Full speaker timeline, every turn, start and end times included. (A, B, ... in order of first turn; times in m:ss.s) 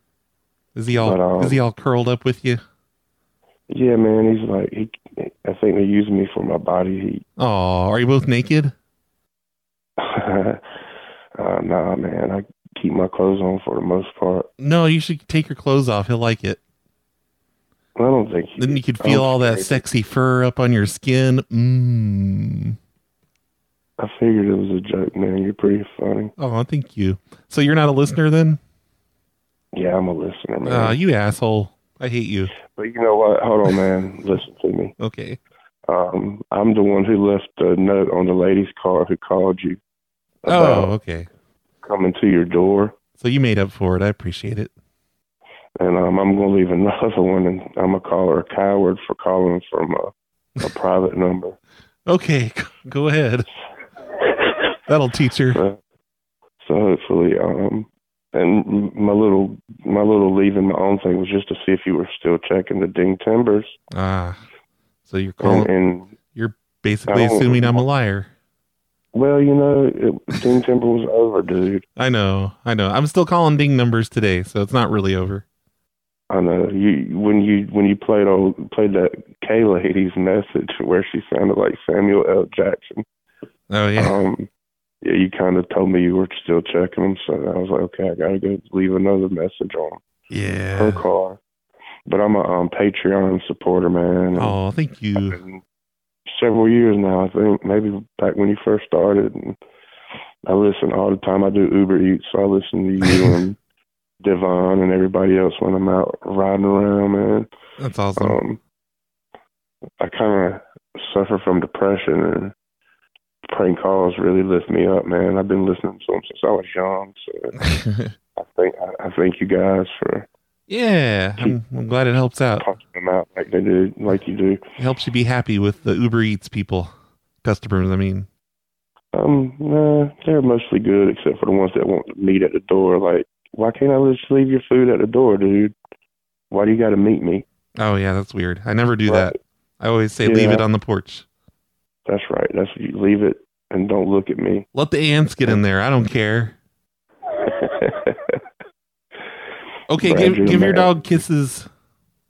0:00.7-0:02.6 A
0:01.0-0:01.6 B
0:03.7-0:07.2 B
0:07.4-0:08.7 A
0:10.0-0:10.6 B
0:11.4-0:14.5 B
0:14.6-0:16.6 A
0:18.0-0:19.8 B
0:18.6-0:22.8 A
0:24.0-0:26.3 B
0:26.4-0:28.6 A
0:29.7-0:31.0 B
0:30.6-0:32.5 A
0:32.6-0:34.9 B
0:35.0-0:35.4 A
0:35.9-0:39.8 B
0:40.4-0:40.9 B
0:40.5-0:41.3 A
0:41.8-0:42.9 B
0:43.2-0:44.7 A
0:45.8-0:51.6 B
0:52.0-0:53.5 A
0:54.9-0:55.6 A
0:55.5-0:55.8 B
0:56.6-1:03.7 B
1:03.9-1:04.4 A
1:05.0-1:05.7 A
1:05.4-1:06.1 B
1:06.3-1:08.3 A
1:07.1-1:07.8 B
1:09.1-1:11.8 B
1:12.0-1:15.4 A
1:16.3-1:23.0 B
1:23.7-1:24.2 A
1:24.0-1:24.5 B
1:25.0-1:30.0 B
1:30.3-1:31.0 A
1:30.7-1:31.4 B
1:32.1-1:34.6 B
1:34.3-1:35.4 A
1:35.2-1:35.6 B
1:36.3-1:39.6 B
1:40.4-1:43.6 B
1:44.2-1:47.5 B
1:47.8-1:48.4 A
1:48.2-1:48.6 B
1:50.0-1:52.5 B
1:53.5-1:57.5 B
1:57.6-1:58.1 A
1:58.4-2:00.2 B
2:00.7-2:02.7 A
2:02.6-2:04.6 B
2:04.8-2:08.3 A
2:09.1-2:15.7 B
2:16.5-2:17.4 B
2:17.8-2:21.2 A
2:19.1-2:19.4 B
2:20.2-2:20.6 B
2:22.0-2:24.7 B
2:24.7-2:26.6 A
2:27.5-2:28.4 B
2:29.9-2:31.7 A
2:30.0-2:31.1 B